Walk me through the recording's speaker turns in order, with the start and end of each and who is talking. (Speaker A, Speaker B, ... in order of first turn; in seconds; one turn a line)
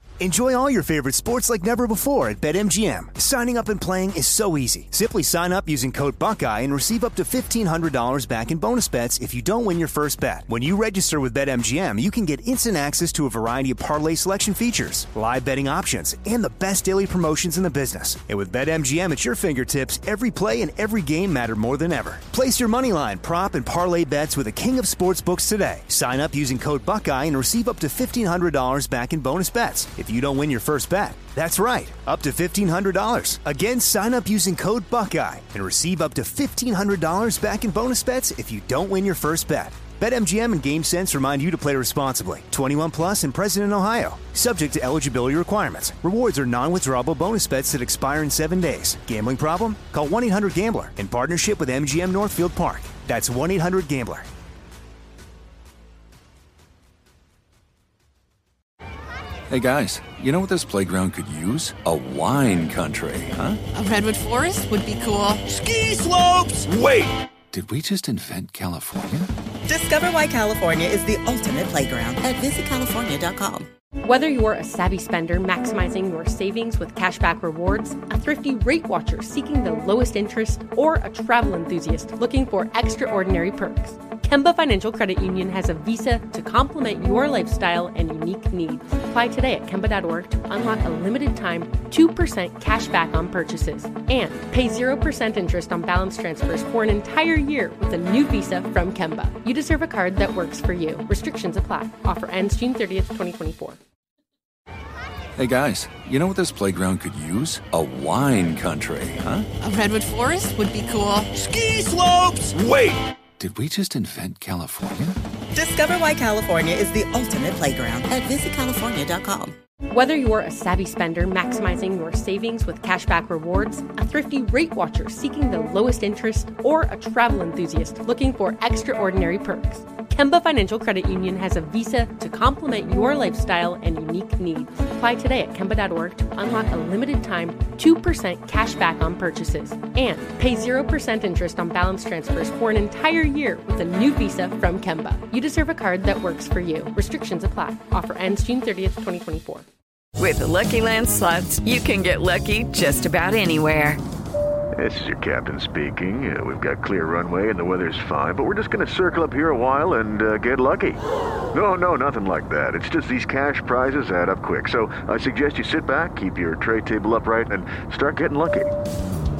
Speaker A: 0.2-54.3
Speaker B: 59.5-63.6
Speaker C: 63.7-65.4
Speaker D: 65.5-67.1
Speaker B: 67.5-69.3
Speaker E: 69.7-73.7
Speaker F: 74.0-103.8
Speaker B: 105.4-109.5
Speaker C: 109.6-111.3
Speaker D: 111.5-113.0
Speaker B: 113.4-115.2
Speaker E: 115.5-119.5
Speaker F: 119.9-149.7
Speaker G: 150.2-154.0
Speaker H: 154.8-161.0
Speaker H: 161.5-168.7